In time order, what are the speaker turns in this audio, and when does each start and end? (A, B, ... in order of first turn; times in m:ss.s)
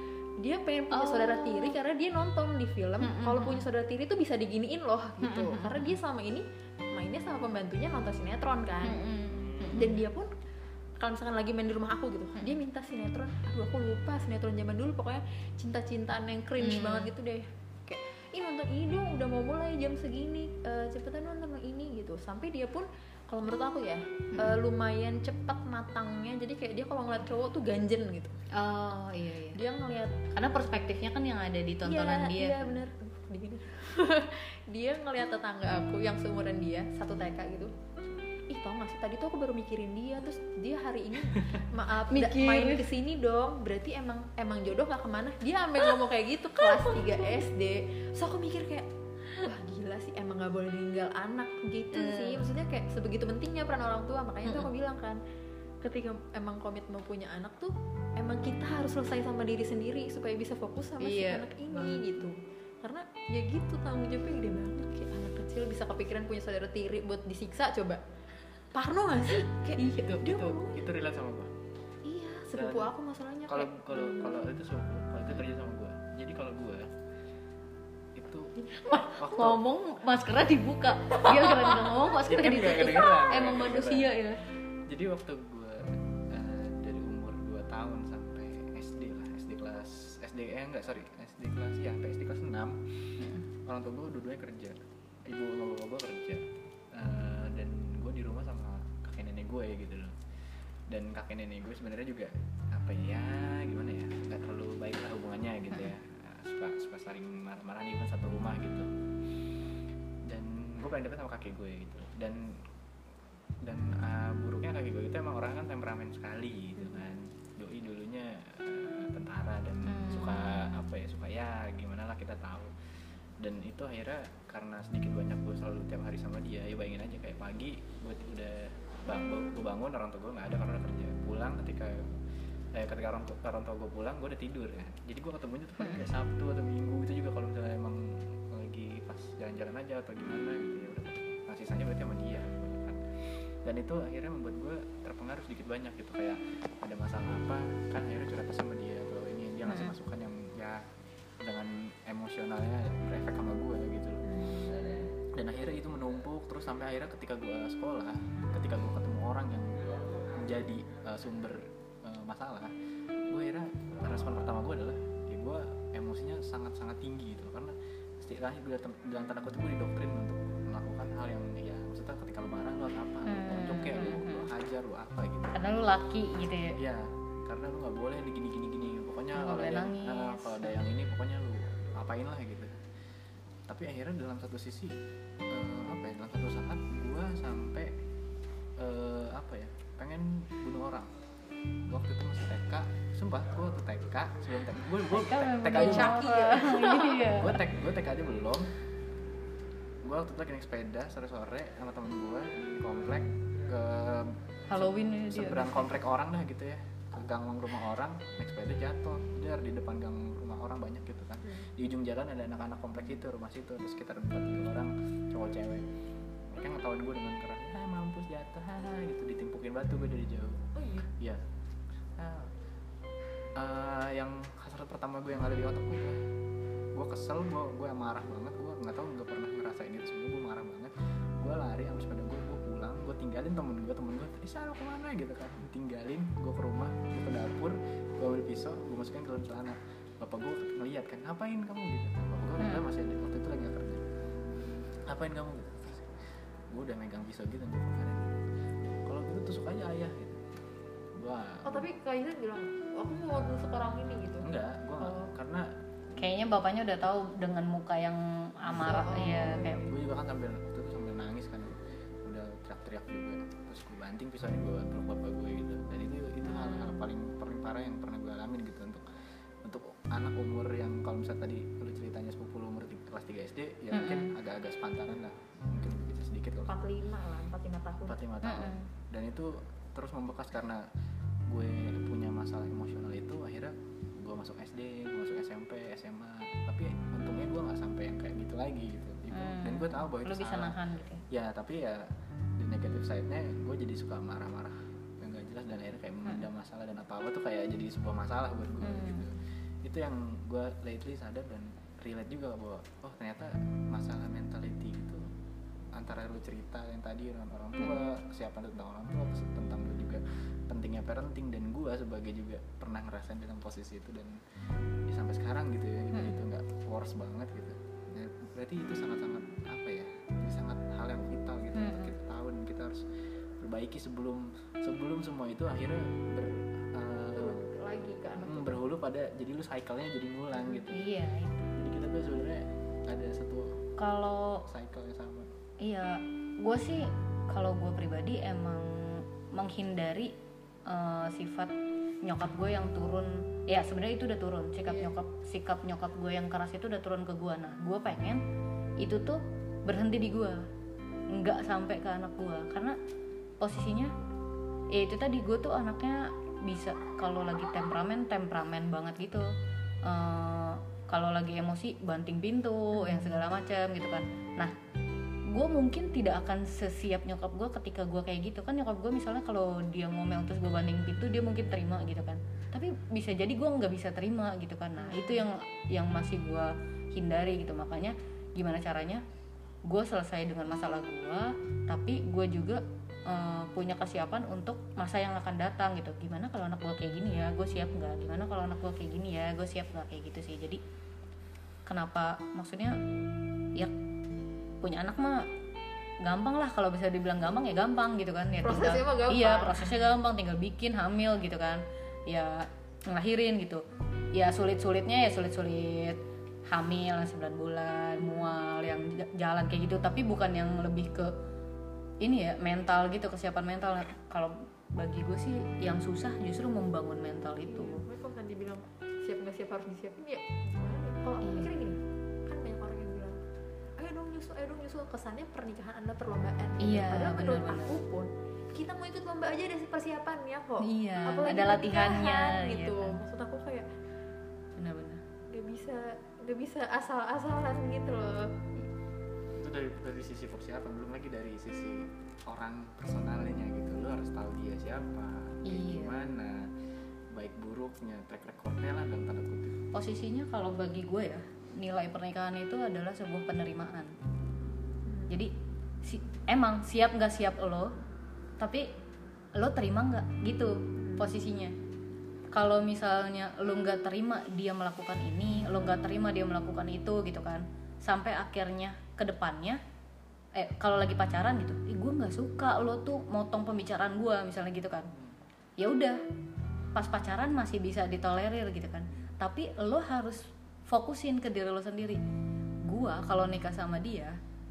0:00.4-0:09.0 A
0:00.9-0:01.8 B
0:03.0-0:03.7 B
0:05.2-0:06.0 B
0:08.8-0:10.0 B
0:09.7-0:10.3 A
0:11.0-0:28.4 A
0:16.6-0:17.1 B
0:28.5-0:29.6 B
0:29.6-0:30.2 A
0:30.3-0:32.8 B
0:31.8-0:37.7 A
0:38.5-0:48.9 A
0:42.1-0:42.8 B
0:46.6-0:47.4 B
0:49.4-0:55.2 A
0:51.9-0:52.4 B
0:54.4-0:54.7 B
0:55.8-1:08.0 A
1:01.0-1:02.3 B
1:08.7-1:10.7 A
1:09.8-1:10.4 B
1:10.2-1:11.5 C
1:12.1-1:13.7 A
1:12.5-1:12.9 C
1:13.5-1:16.9 C
1:18.1-1:18.5 C
1:18.9-1:24.4 B
1:19.1-1:19.6 C
1:22.2-1:24.2 C
1:24.9-1:32.8 C
1:33.6-1:40.2 C
1:40.9-1:48.9 C
1:50.3-1:52.6 C
1:53.6-2:02.7 C
1:59.9-2:00.8 B
2:03.4-2:12.0 C
2:12.8-2:30.8 C
2:15.8-2:16.1 B
2:29.7-2:29.9 B
2:31.4-2:42.7 C
2:34.2-2:34.8 A
2:43.3-2:55.7 C
2:53.2-2:54.5 B
2:55.6-2:56.8 B
2:56.8-3:02.8 C
2:59.4-3:00.8 B
3:03.7-3:05.0 C
3:05.5-3:07.9 C
3:08.8-3:11.1 C
3:11.9-3:16.2 C
3:15.1-3:17.6 B
3:15.7-3:17.3 A
3:17.3-3:18.7 C
3:20.0-3:35.9 C
3:24.7-3:25.9 B
3:36.5-3:40.6 C
3:40.8-3:41.1 A
3:42.2-3:42.5 C
3:43.6-3:46.2 C
3:46.9-4:04.0 C
4:02.6-4:02.9 B
4:05.1-4:06.2 C
4:06.7-4:08.4 C
4:09.0-4:10.4 C
4:11.1-4:11.9 C
4:11.6-4:14.5 A
4:14.4-4:15.8 C
4:15.0-4:15.3 A
4:16.2-4:19.9 B
4:18.8-4:19.8 A
4:19.8-4:29.0 C
4:26.4-4:27.0 B
4:29.6-4:36.8 C
4:33.9-4:34.3 B
4:36.7-4:38.3 A
4:38.1-4:40.9 C
4:38.4-4:38.9 B
4:41.5-4:52.0 C
4:49.3-4:51.2 B
4:52.6-5:05.2 C
4:58.8-4:59.2 B
5:05.9-5:14.4 C
5:15.1-5:23.0 C
5:16.1-5:16.4 B
5:21.7-5:22.1 B
5:23.6-5:27.6 C
5:27.4-5:28.8 A
5:28.4-5:31.1 C
5:30.9-5:31.7 B
5:31.7-5:33.8 C
5:34.0-5:34.6 B
5:34.6-5:35.5 C
5:35.8-5:40.3 B
5:40.9-5:41.7 B
5:42.2-5:48.4 B
5:49.0-5:50.6 B
5:51.3-5:53.0 B
5:53.6-5:54.1 B
5:54.9-5:59.5 B
6:00.0-6:04.7 B
6:03.0-6:03.4 A
6:05.5-6:19.2 B
6:15.0-6:15.5 A
6:19.9-6:30.8 B
6:31.9-6:33.0 B
6:34.8-6:35.5 B
6:36.2-6:43.8 B
6:38.6-6:39.9 A
6:44.3-6:51.3 B
6:52.2-6:58.0 B
6:57.7-7:03.4 A
7:01.4-7:01.7 B
7:04.0-7:13.9 A
7:06.8-7:08.0 B
7:10.8-7:13.2 B
7:14.8-7:15.2 B
7:15.5-7:18.9 A
7:19.5-7:26.7 C
7:25.6-7:26.2 B
7:27.3-7:29.8 C
7:29.9-7:34.1 B
7:35.0-7:35.3 A
7:36.0-7:37.9 B
7:38.6-7:38.9 B
7:39.6-7:41.8 B
7:41.0-7:41.3 A
7:42.5-7:49.8 B
7:50.6-7:55.1 B
7:55.8-7:56.2 B
7:57.0-8:02.2 B
8:02.9-8:04.4 B